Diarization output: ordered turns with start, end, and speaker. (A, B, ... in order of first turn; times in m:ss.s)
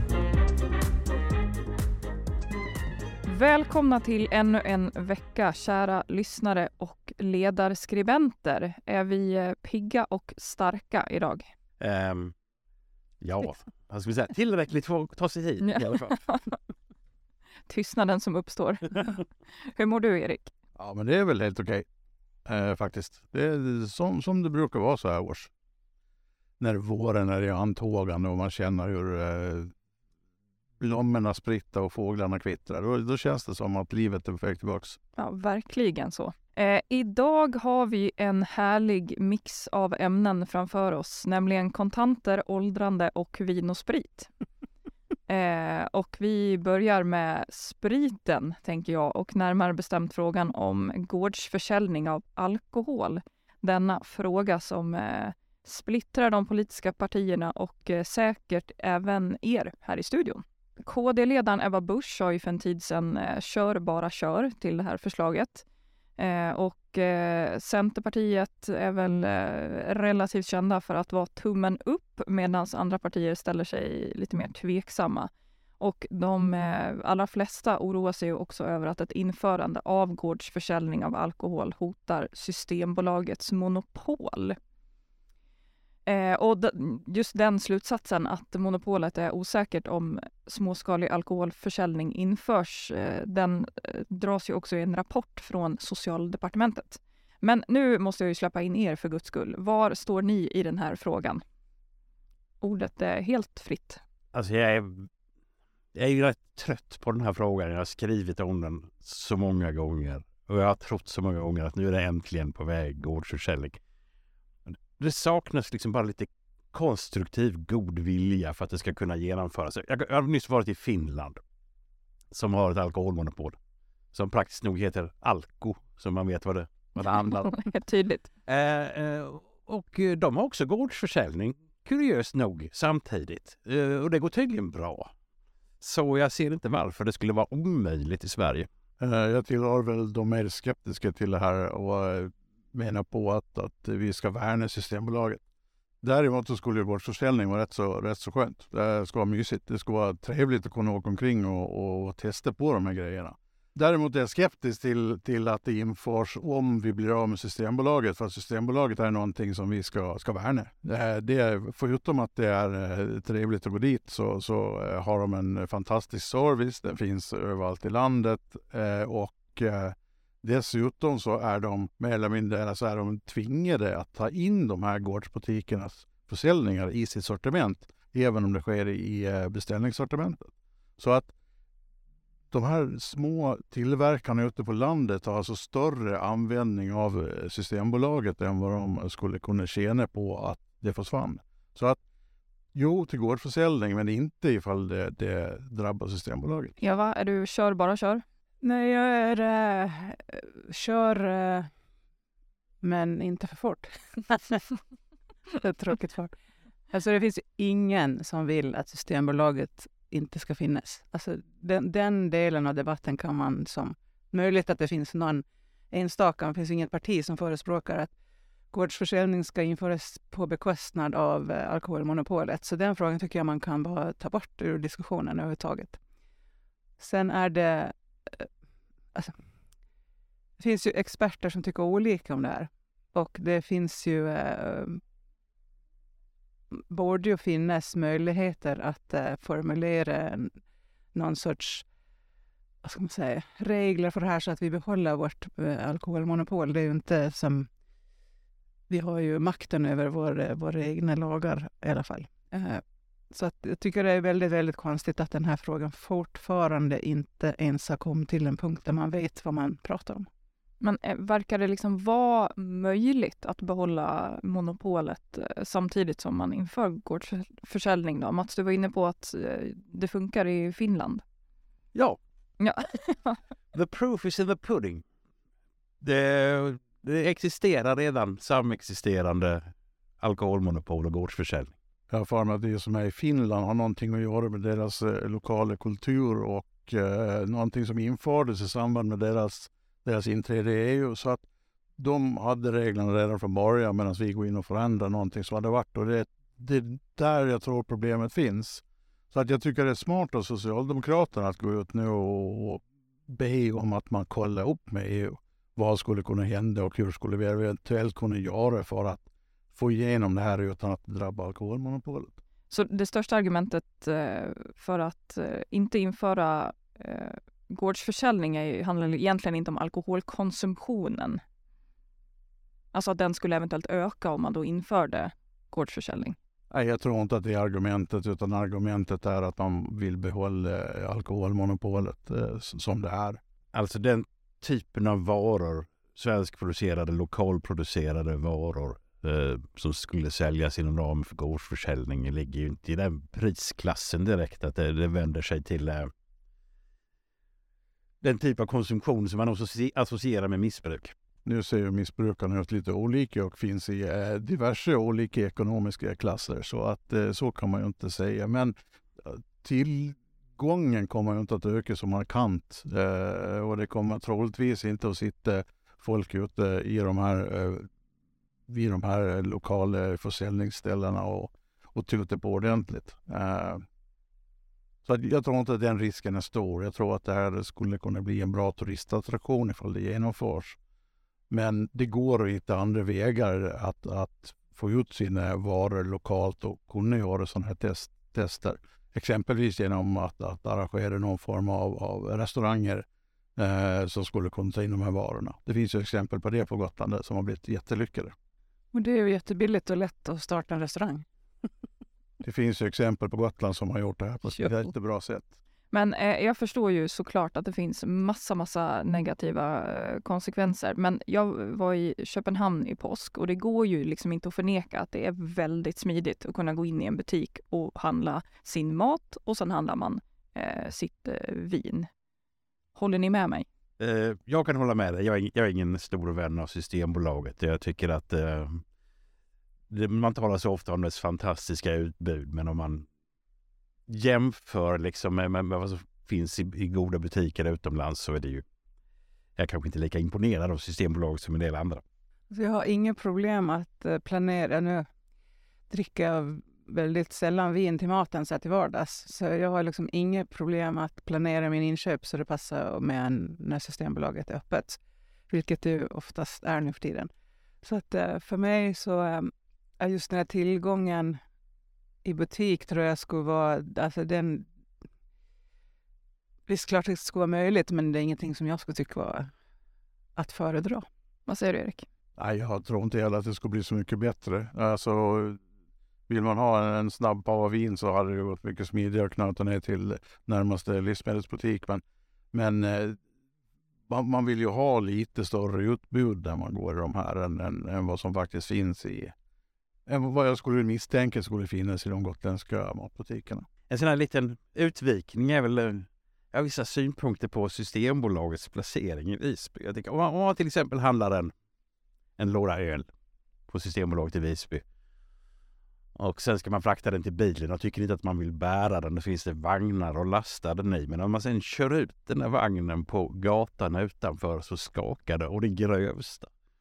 0:03.2-0:11.5 A
0:11.8-0:12.3 B
0:13.2-0:16.2 B
0:15.6-0:16.6 A
0:17.7-0:20.5 A
0:20.8-0:21.9 C
0:22.4-0:25.5 C
0:26.6-0:29.7 C
0:30.8-0:35.0 C
0:35.2-0:44.3 A
0:45.3-1:05.6 A
1:06.2-1:24.6 A
1:26.1-1:41.4 A
1:42.6-1:44.0 A
1:44.3-1:45.1 B
1:46.0-1:53.8 B
1:54.7-2:01.4 B
2:02.3-2:03.6 B
2:04.1-2:07.6 B
2:07.0-2:08.3 A
2:08.4-2:15.1 B
2:15.8-2:18.7 B
2:19.0-2:25.4 C
2:26.0-3:01.3 C
3:02.5-3:12.0 C
3:12.7-3:16.7 C
3:16.8-3:18.2 A
3:18.6-3:21.7 D
3:22.8-3:24.7 D
3:25.6-3:26.3 D
3:26.9-3:38.1 D
3:38.7-3:46.0 D
3:47.0-3:48.5 D
3:50.6-3:55.0 D
3:56.7-4:00.5 D
4:01.1-4:01.8 D
4:02.8-4:07.7 D
4:08.9-4:20.3 D
4:20.8-4:31.2 A
4:31.9-4:32.2 B
4:32.6-4:33.4 A
4:33.7-4:35.0 B
4:36.0-4:41.8 B
4:42.1-4:51.4 C
4:52.0-5:12.4 C
5:12.7-5:21.4 A
5:22.9-5:26.4 A
5:26.7-5:33.4 C
5:33.7-5:46.1 B
5:48.2-5:51.1 B
5:51.4-6:07.9 C
6:08.7-6:13.8 C
6:15.0-6:20.8 C
6:21.5-6:38.3 C
6:38.9-6:41.2 D
6:42.4-6:45.5 C
6:45.9-7:02.1 A
7:02.9-7:03.7 A
7:04.0-7:08.8 B
7:09.9-7:13.1 B
7:14.1-7:18.6 B
7:19.6-7:22.0 B
7:22.5-7:25.1 D
7:25.9-7:37.3 D
7:37.8-7:41.4 D
7:42.2-7:44.7 D
7:46.7-7:49.5 D
7:50.4-7:51.0 D
7:51.5-7:52.1 A
7:52.4-7:55.6 C
7:56.3-8:03.2 C
8:04.1-8:09.3 C
8:10.1-8:13.7 C
8:13.9-8:21.5 B
8:22.4-8:23.1 B
8:23.7-8:24.8 B
8:26.2-8:36.5 B